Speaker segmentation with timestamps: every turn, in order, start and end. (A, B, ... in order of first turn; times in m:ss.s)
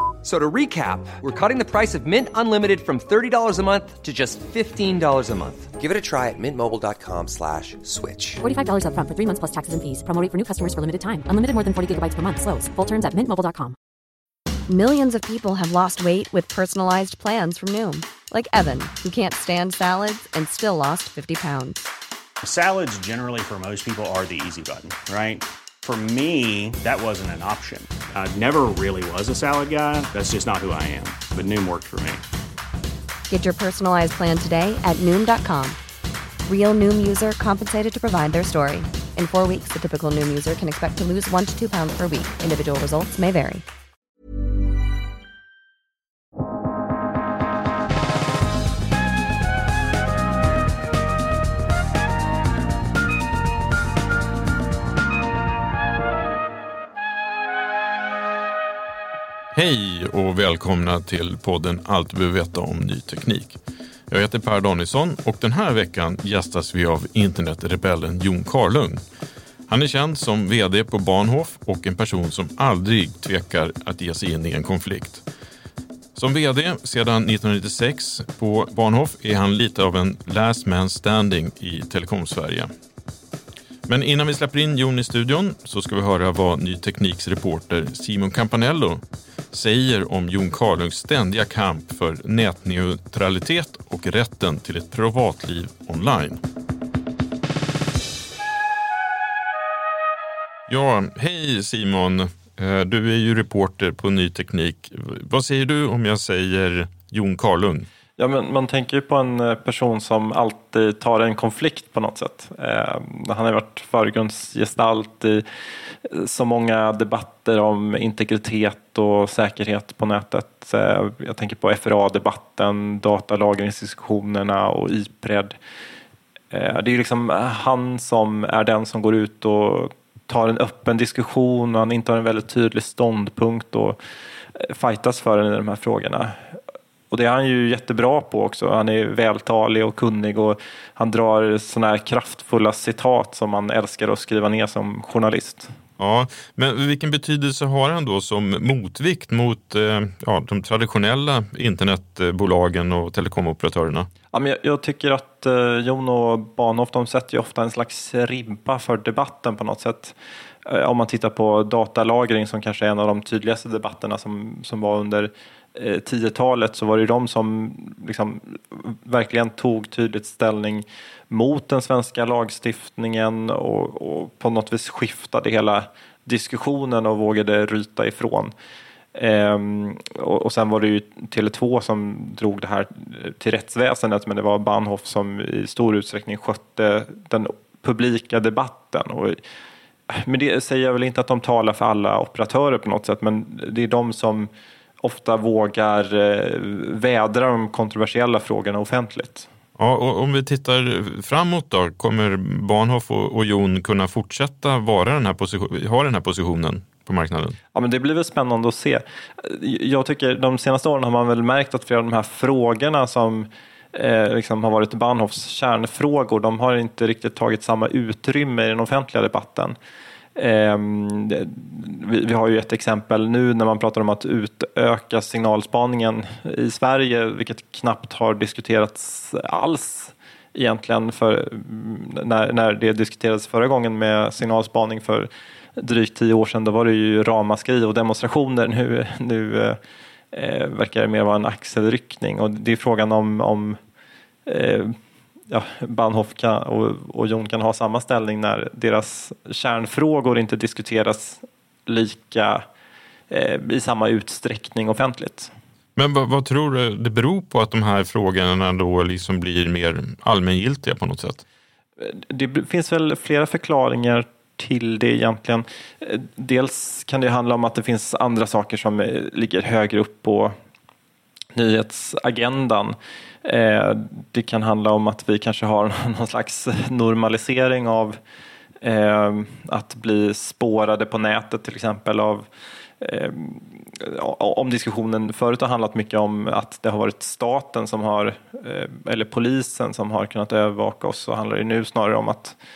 0:00.2-0:08.4 A
0:08.4-0:13.7 B
0:14.7-0:21.8 C
0:22.4-0:32.2 D
0:33.3-0:35.8 C
0:36.5-0:43.6 C
0:59.5-1:03.6 E
1:04.1-1:09.0 E
1:09.7-1:15.2 E
1:16.2-1:22.7 E
1:23.9-1:36.4 E
1:40.7-1:47.9 E
1:48.2-1:55.4 F
1:56.0-2:05.6 F
2:06.5-2:14.0 F
2:14.6-2:16.4 F
2:17.1-2:25.7 F
2:26.0-2:34.1 E
2:34.3-2:40.2 F
2:40.7-2:58.5 F
2:59.2-3:09.4 F
3:10.1-3:14.5 F
3:15.0-3:19.5 F
3:19.8-3:27.6 E
3:27.8-3:39.8 F
3:40.4-3:59.8 F
4:00.3-4:03.8 F
4:04.5-4:05.0 F
4:05.5-4:12.6 F
4:13.3-4:15.5 F
4:16.0-4:21.4 E
4:22.0-4:30.6 F
4:31.6-4:38.2 F
4:38.8-4:42.5 F
4:43.0-4:52.6 F